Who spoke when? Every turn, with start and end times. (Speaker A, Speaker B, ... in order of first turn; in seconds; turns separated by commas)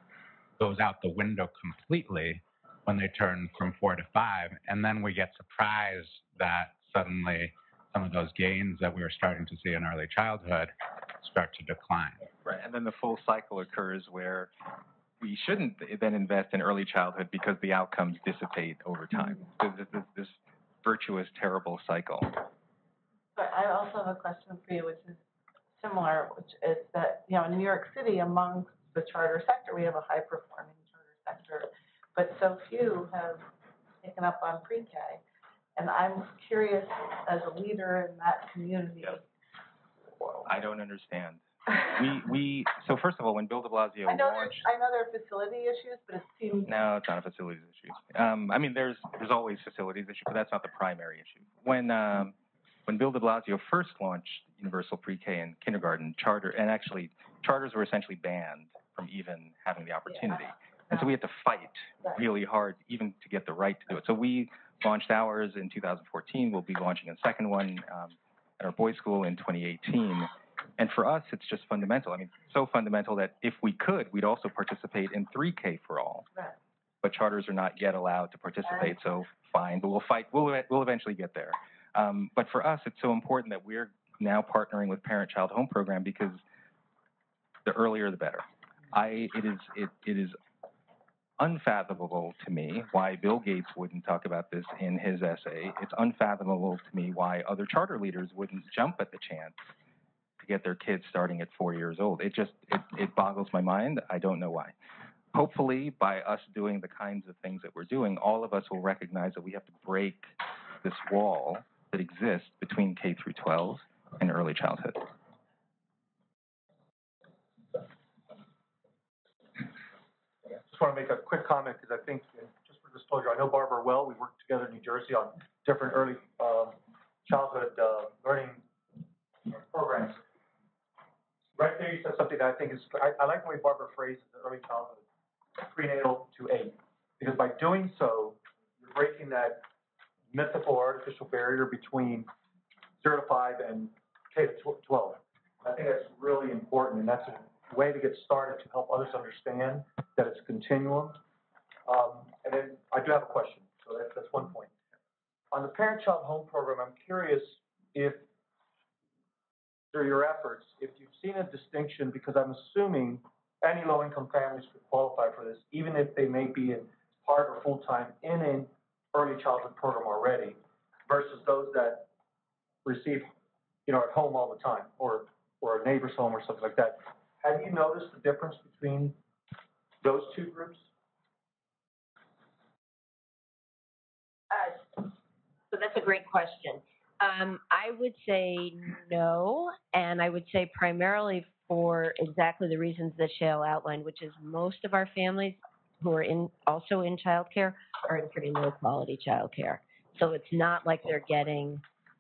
Speaker A: 0.6-12.2, Speaker B: 12.4-14.5, Speaker B: 15.2-22.4, Speaker C: 23.4-25.2, Speaker C: 25.8-33.5, Speaker C: 34.0-35.2, Speaker C: 35.8-39.2, Speaker B: 40.4-44.6, Speaker C: 44.0-46.9, Speaker B: 46.6-52.4, Speaker B: 52.9-76.3, Speaker B: 77.0-86.4, Speaker B: 87.7-90.4, Speaker B: 91.4-99.7, Speaker B: 100.4-104.8, Speaker B: 105.3-115.1, Speaker D: 120.7-128.7, Speaker D: 129.5-130.2, Speaker D: 131.6-135.0, Speaker D: 135.6-139.7, Speaker D: 140.3-142.3, Speaker D: 143.0-151.2, Speaker D: 151.9-154.7, Speaker D: 155.5-158.3, Speaker D: 159.9-172.1, Speaker D: 172.8-173.3, Speaker D: 173.9-179.2, Speaker D: 180.0-180.9, Speaker E: 185.7-201.8